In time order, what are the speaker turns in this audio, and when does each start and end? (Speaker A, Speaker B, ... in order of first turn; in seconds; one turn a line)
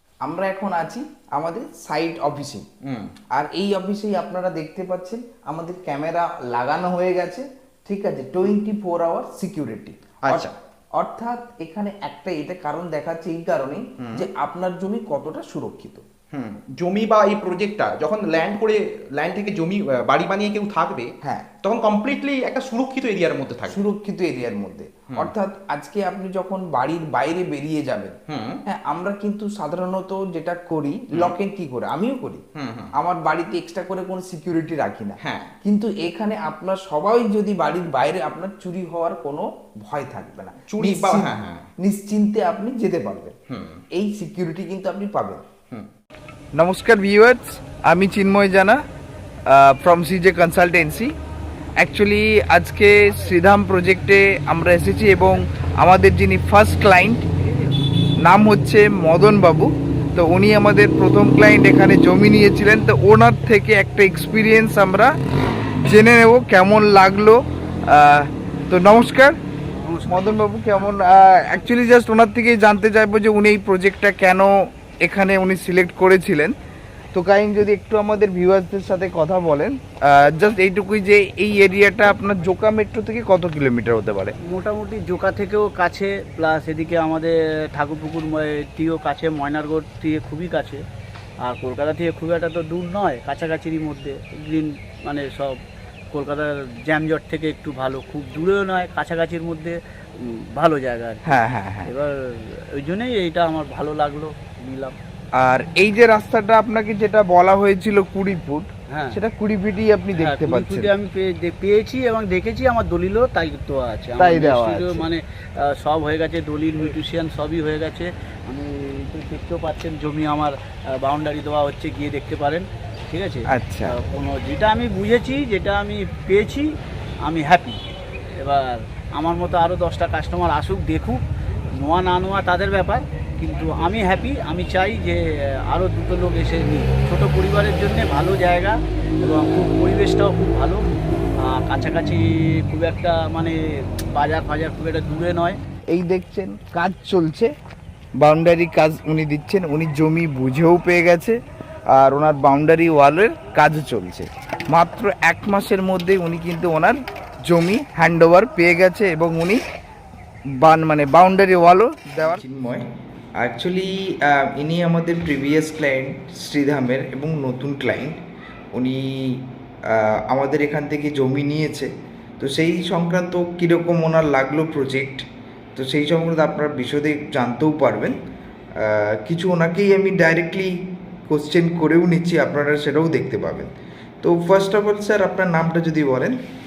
Speaker A: 0.2-2.6
Speaker B: 2.8-3.1
Speaker A: 3.4-16.0
Speaker B: 10.3-10.5
Speaker B: 14.0-14.2
Speaker B: 16.3-21.1
Speaker A: 21.2-21.5
Speaker B: 21.6-23.8
Speaker A: 23.7-32.4
Speaker B: 28.3-28.6
Speaker B: 32.5-32.9
Speaker A: 33.0-41.3
Speaker B: 35.2-35.5
Speaker B: 40.7-41.6
Speaker A: 41.8-43.4
Speaker B: 43.5-43.8
Speaker A: 44.0-45.4
Speaker A: 46.6-48.8
Speaker A: 49.5-51.1
Speaker A: 51.8-57.3
Speaker A: 58.2-65.1
Speaker A: 65.8-69.4
Speaker C: 69.8-70.8
Speaker A: 70.0-76.5
Speaker A: 77.1-84.3
Speaker C: 84.5-90.8
Speaker C: 91.4-95.6
Speaker C: 96.1-101.2
Speaker A: 101.2-101.9
Speaker C: 101.8-105.0
Speaker A: 105.4-110.9
Speaker C: 108.9-109.2
Speaker C: 110.2-126.7
Speaker A: 114.2-115.0
Speaker A: 123.5-124.0
Speaker C: 127.2-127.8
Speaker C: 128.3-131.2
Speaker C: 131.8-145.6
Speaker A: 145.9-147.5
Speaker A: 148.2-151.4
Speaker A: 151.9-159.6
Speaker A: 160.6-162.8
Speaker A: 163.4-168.2
Speaker A: 168.7-171.9
Speaker A: 172.4-178.2
Speaker A: 178.8-180.7
Speaker A: 181.3-183.7
Speaker A: 184.2-186.4